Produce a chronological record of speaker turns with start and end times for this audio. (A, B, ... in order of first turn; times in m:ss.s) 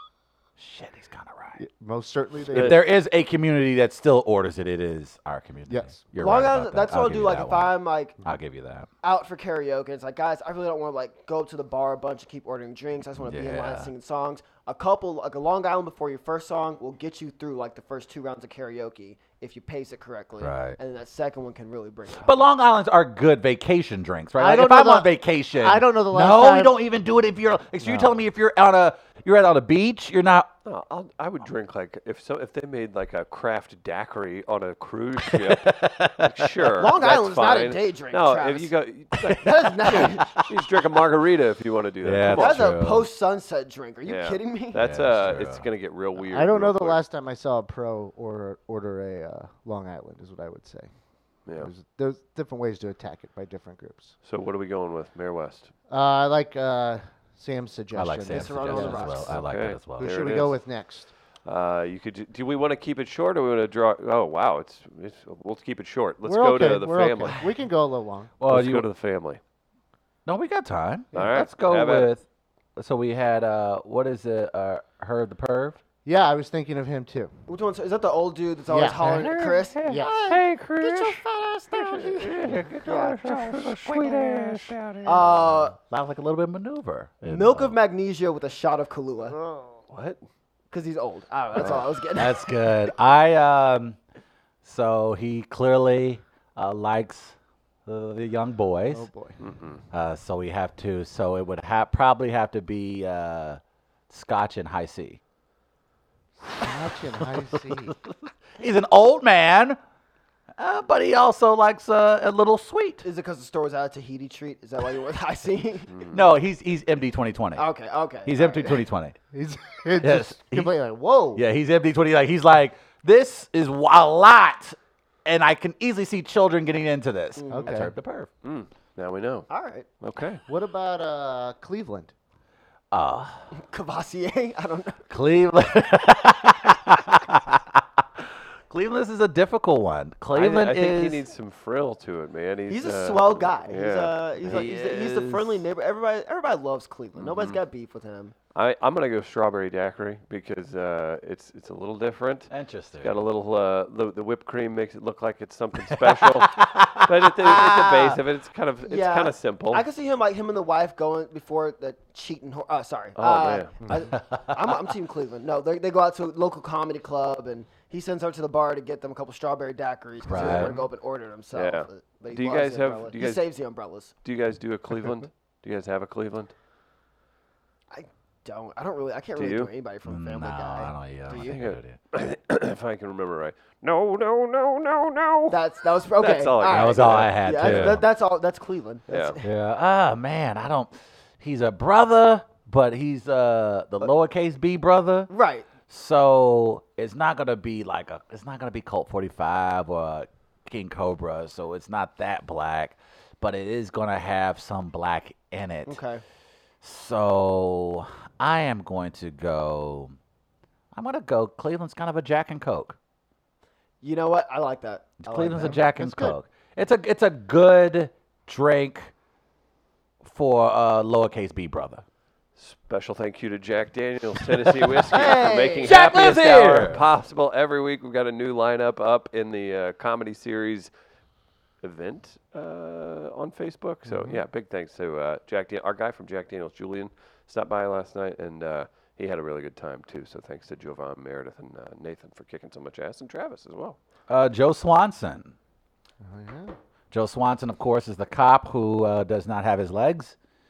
0:00.6-0:01.6 A
0:01.6-0:02.8 B
0:02.5-0:02.8 C
0:02.5-0:08.9 A
0:05.7-0:06.0 B
0:06.2-0:08.2 D
0:09.0-0:22.5 D
0:13.2-0:13.9 A
0:20.4-0:20.8 A
0:22.2-0:30.5 A
0:24.4-0:26.8 B
0:27.8-0:28.2 B
0:30.6-0:42.7 C
0:35.2-0:36.7 A
0:36.8-0:38.7 D
0:39.3-0:40.4 D
0:39.9-0:40.4 A
0:42.0-0:43.1 A
0:42.3-0:44.8 D
0:44.0-0:47.0 C
0:44.8-0:45.6 A
0:46.2-0:50.9 B
0:51.5-0:51.7 C
0:51.5-0:54.1 B
0:54.2-0:55.7 C
0:55.9-0:59.4 B
0:57.9-1:00.3 A
0:58.3-0:59.4 D
0:59.3-1:00.6 C
1:00.0-1:01.1 B
1:01.5-1:07.4 C
1:06.2-1:08.3 B
1:08.4-1:08.9 A
1:08.5-1:09.4 C
1:10.3-1:12.2 A
1:11.1-1:12.1 C
1:12.8-1:15.8 A
1:16.0-1:17.3 B
1:17.5-1:20.1 D
1:18.7-1:20.4 B
1:19.0-1:27.8 A
1:20.8-1:23.2 D
1:23.5-1:24.0 C
1:25.0-1:25.8 D
1:27.2-1:29.4 D
1:29.3-1:29.8 B
1:29.9-1:30.2 C
1:30.7-1:32.5 D
1:31.7-1:34.0 A
1:34.6-1:37.4 A
1:37.9-1:39.1 A
1:38.9-1:39.4 B
1:39.4-1:39.8 C
1:39.9-1:45.2 A
1:46.6-1:48.0 B
1:48.6-1:49.8 A
1:50.6-1:53.0 A
1:53.0-1:56.0 D
1:55.9-1:56.2 C
1:56.1-1:57.6 A
1:57.6-1:58.8 D
1:58.3-1:59.2 A
1:59.3-2:01.4 B
2:00.0-2:00.7 A
2:01.4-2:08.3 A
2:07.4-2:07.8 D
2:07.5-2:07.9 B
2:08.4-2:09.5 C
2:09.5-2:09.9 D
2:10.0-2:10.4 C
2:10.5-2:12.1 B
2:12.9-2:13.5 A
2:13.5-2:15.0 D
2:15.1-2:17.8 A
2:18.7-2:21.2 A
2:20.3-2:24.6 C
2:22.7-2:28.4 D
2:24.4-2:25.6 A
2:27.2-2:27.6 C
2:28.6-2:39.8 C
2:32.5-2:33.2 A
2:36.0-2:38.2 A
2:38.8-2:54.1 D
2:43.2-2:43.7 C
2:43.8-2:44.1 B
2:44.1-2:44.8 A
2:50.2-2:50.8 A
2:50.4-2:50.8 C
2:51.5-2:53.5 C
2:54.2-2:56.5 C
2:57.9-3:01.6 D
2:59.4-2:59.7 C
3:00.0-3:02.0 A
3:01.3-3:05.6 C
3:05.5-3:09.4 D
3:06.2-3:08.0 C
3:06.7-3:08.0 A
3:09.1-3:09.4 C
3:09.4-3:15.3 A
3:15.3-3:15.7 D
3:15.9-3:26.0 A
3:25.9-3:26.2 D
3:26.8-3:30.1 A
3:30.9-3:33.0 A
3:34.0-3:35.8 D
3:35.2-3:39.1 A
3:35.5-3:36.4 B
3:40.2-3:42.0 A
3:42.6-3:50.9 C
3:44.8-3:45.1 A
3:45.1-3:46.0 D
3:45.8-3:47.0 A
3:51.8-4:04.0 C
3:54.1-3:54.4 B
4:04.3-4:05.5 A
4:06.2-4:06.8 B
4:07.1-4:10.4 A